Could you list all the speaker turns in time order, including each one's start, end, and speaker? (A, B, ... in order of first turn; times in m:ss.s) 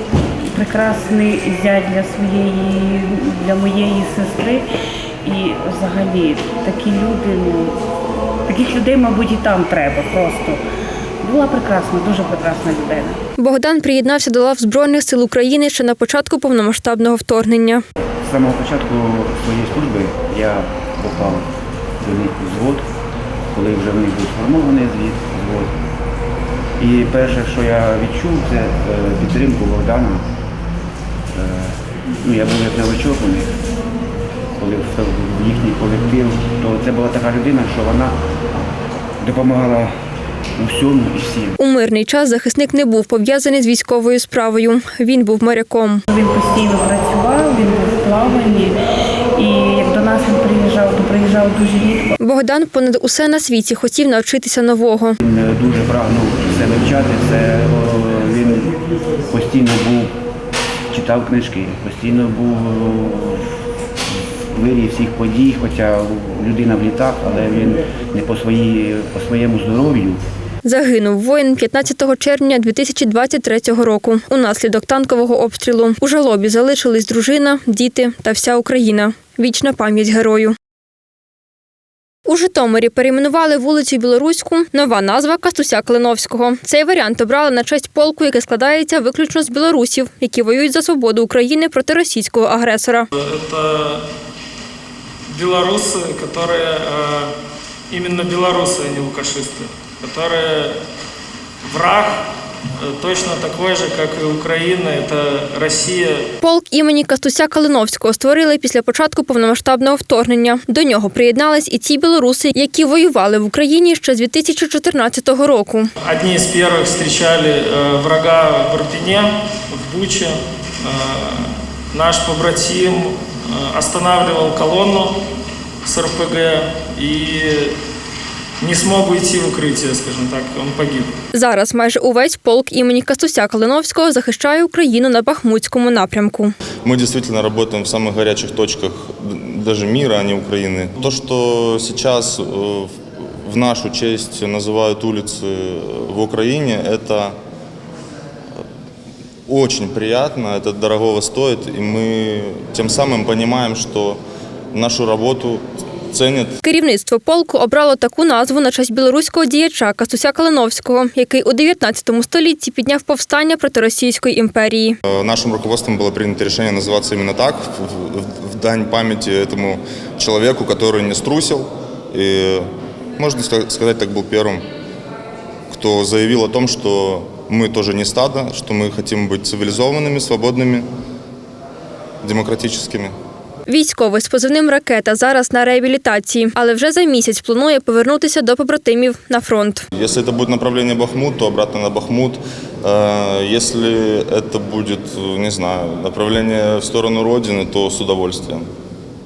0:00.4-0:04.7 A
0:05.2-0:07.8 A
0:08.4-0:10.6 A
0:11.2-0:13.2 A
0:13.4-0:17.8 B
0:18.2-0:21.4 C
0:22.0-0:22.8 C
0:23.5-0:25.7 C
0:26.8-0:30.2 C
0:31.3-0:33.5 C
0:34.6-0:38.1 C
0:39.2-0:39.9 C
0:40.6-0:41.5 C
0:41.6-0:46.0 B
0:46.1-0:48.8 A
0:49.3-0:52.1 A
0:52.2-0:55.2 B
0:55.2-1:00.1 C
1:00.9-1:03.4 C
1:04.5-1:10.2 C
1:10.6-1:20.6 B
1:22.2-1:33.1 B
1:33.2-1:34.0 D
1:35.3-1:37.3 D
1:37.9-1:40.8 D
1:41.6-1:42.2 D
1:42.8-1:46.2 D
1:46.4-1:55.9 B
1:56.0-2:05.1 D
2:05.8-2:07.7 D
2:08.6-2:11.1 D
2:11.3-2:16.5 B
2:16.8-2:22.9 E
2:23.4-2:27.4 E
2:29.5-2:34.2 E
2:34.7-2:36.6 E
2:36.6-2:45.0 B
2:45.1-2:52.7 E
2:53.2-2:54.7 E
2:55.7-3:00.9 E
3:02.2-3:03.1 E
3:03.7-3:09.8 B
3:09.9-3:18.6 E